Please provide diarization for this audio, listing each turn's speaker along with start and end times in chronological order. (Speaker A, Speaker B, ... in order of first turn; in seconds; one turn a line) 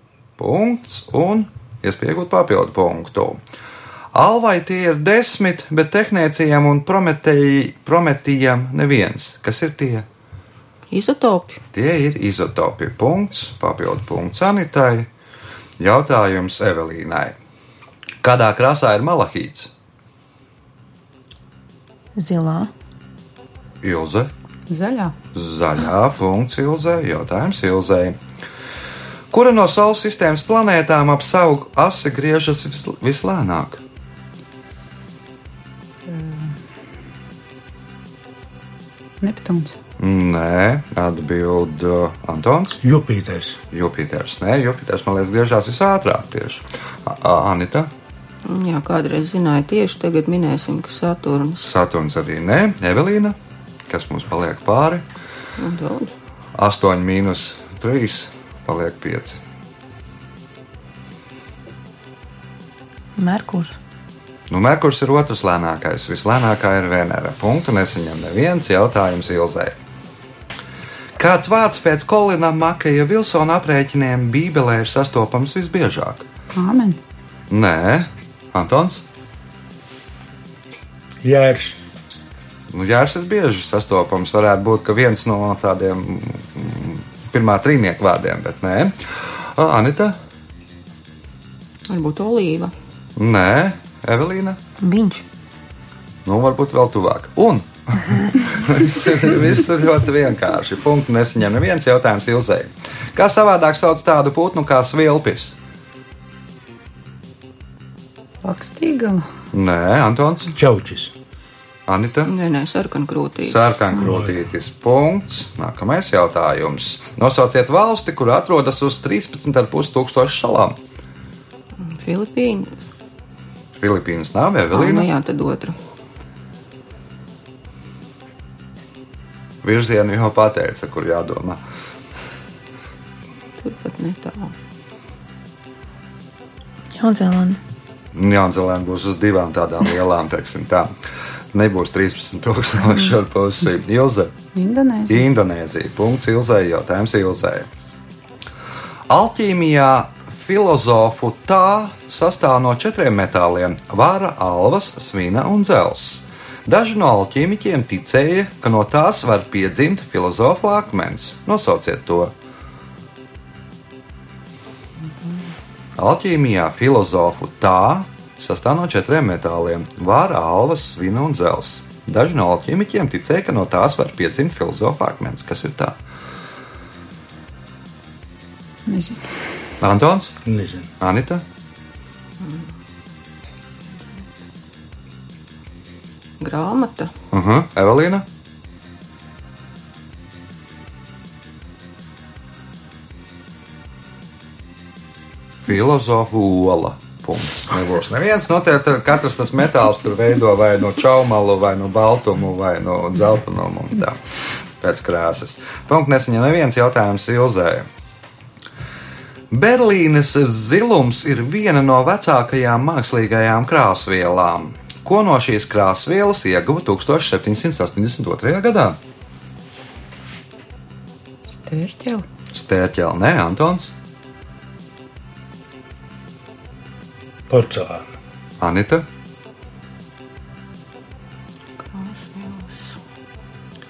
Speaker A: 0.4-3.4
Speaker A: 4.1-10.1
Speaker B: 10.9-11.6
Speaker A: 11.7-15.1
Speaker A: 15.8-17.3
Speaker A: 18.2-19.7
Speaker C: 22.1-22.7
Speaker A: 23.8-24.3
Speaker D: 24.7-25.1
Speaker A: 25.3-28.1
Speaker A: 29.3-33.8
Speaker D: 36.1-36.5
Speaker D: 39.2-39.8
Speaker A: 40.0-42.8
Speaker E: 42.8-43.6
Speaker A: 43.7-47.9
Speaker B: 48.5-51.7
Speaker A: 51.6-53.4
Speaker A: 53.9-55.0
Speaker B: 55.6-56.1
Speaker A: 56.5-59.4
Speaker C: 63.1-63.7
Speaker A: 64.5-69.7
Speaker A: 71.2-76.2
Speaker D: 76.5-77.0
Speaker A: 77.5-79.0
Speaker E: 81.2-81.8
Speaker A: 82.7-88.9
Speaker A: 89.5-90.2
Speaker B: 91.9-92.7
Speaker A: 93.2-94.6
Speaker C: 94.8-95.2
Speaker A: 96.2-105.5
Speaker D: 108.4-109.3
Speaker A: 109.5-110.5
Speaker E: 110.5-111.1
Speaker A: 111.9-112.3
Speaker B: 112.2-113.8
Speaker A: 113.4-120.8
Speaker E: 113.9-114.4
Speaker B: 121.8-122.8
Speaker A: 123.8-125.1
Speaker B: 124.7-125.8
Speaker A: 129.6-131.6
Speaker B: 133.6-134.5
Speaker C: 136.9-137.6
Speaker A: 138.1-140.9
Speaker A: 141.5-144.3
Speaker D: 144.5-145.2
Speaker A: 145.1-147.7
Speaker A: 149.1-162.3
Speaker A: 166.0-175.9
Speaker D: 178.9-179.4
Speaker A: 179.8-180.4
Speaker E: 180.4-180.9
Speaker A: 181.0-181.4
Speaker B: 182.4-182.7
Speaker B: 186.4-187.1
Speaker A: 187.3-188.2
Speaker A: 195.7-204.2
Speaker A: 204.8-207.8
Speaker A: 209.5-219.0
Speaker D: 221.4-222.2
Speaker A: 222.5-223.9
Speaker E: 227.5-228.1
Speaker A: 228.6-229.0
Speaker B: 231.8-233.0